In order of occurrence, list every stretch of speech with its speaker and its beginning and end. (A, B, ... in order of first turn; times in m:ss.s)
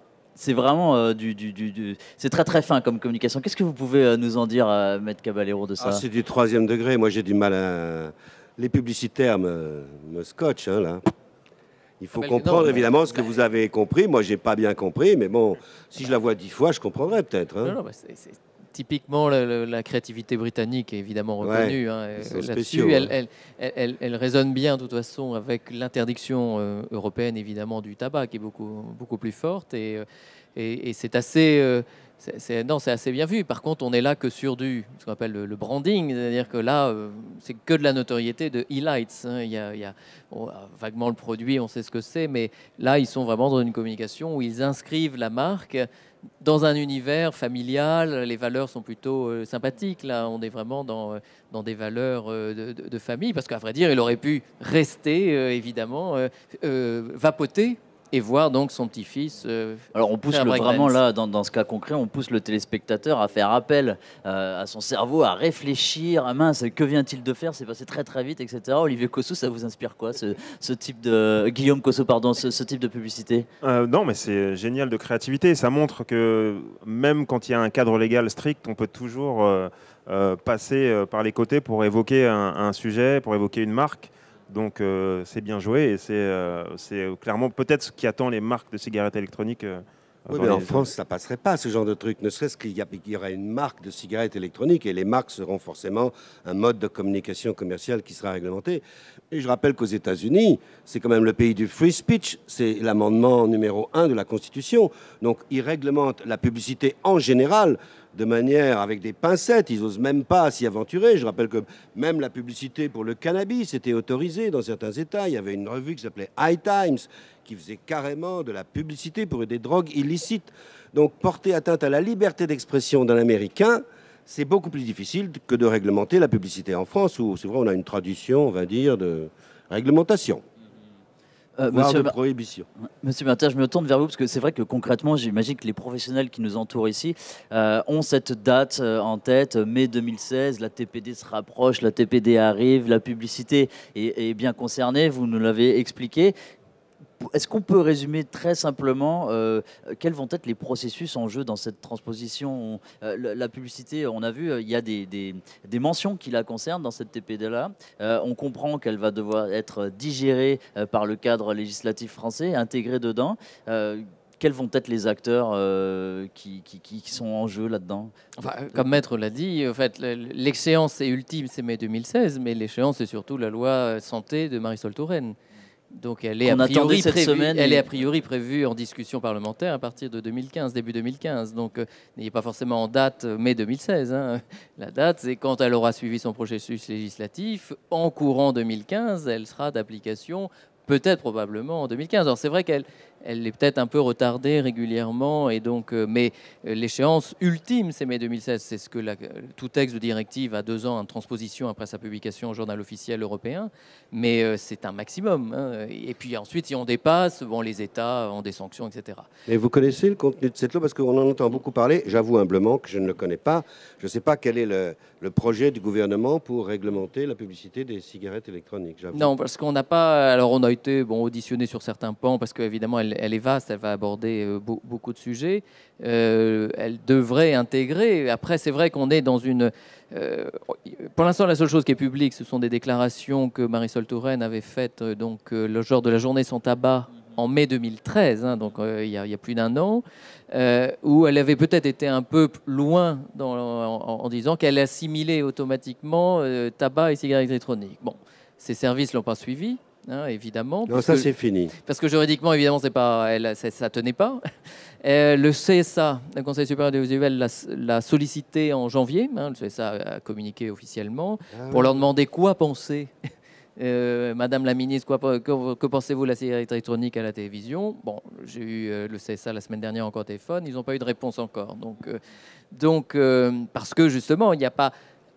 0:00.3-0:06.0 A
0:05.8-0:11.0 B
0:12.0-0:17.8 B
0:12.2-0:13.2 C
0:17.6-0:30.0 C
0:21.4-0:23.1 B
0:30.6-0:45.9 C
0:46.4-1:01.0 C
0:59.9-1:13.5 A
1:13.6-1:30.9 D
1:30.3-2:10.4 B
2:11.6-2:12.1 A
2:11.7-2:12.7 B
2:13.0-2:26.3 A
2:27.2-2:48.1 A
2:48.4-2:55.4 C
2:55.9-3:29.3 C
2:56.4-2:57.8 A
3:29.5-3:39.3 B
3:39.1-4:14.4 C
4:10.9-4:11.7 B
4:15.0-4:23.1 C
4:21.5-4:21.9 B
4:23.8-4:32.2 C
4:32.7-4:34.9 C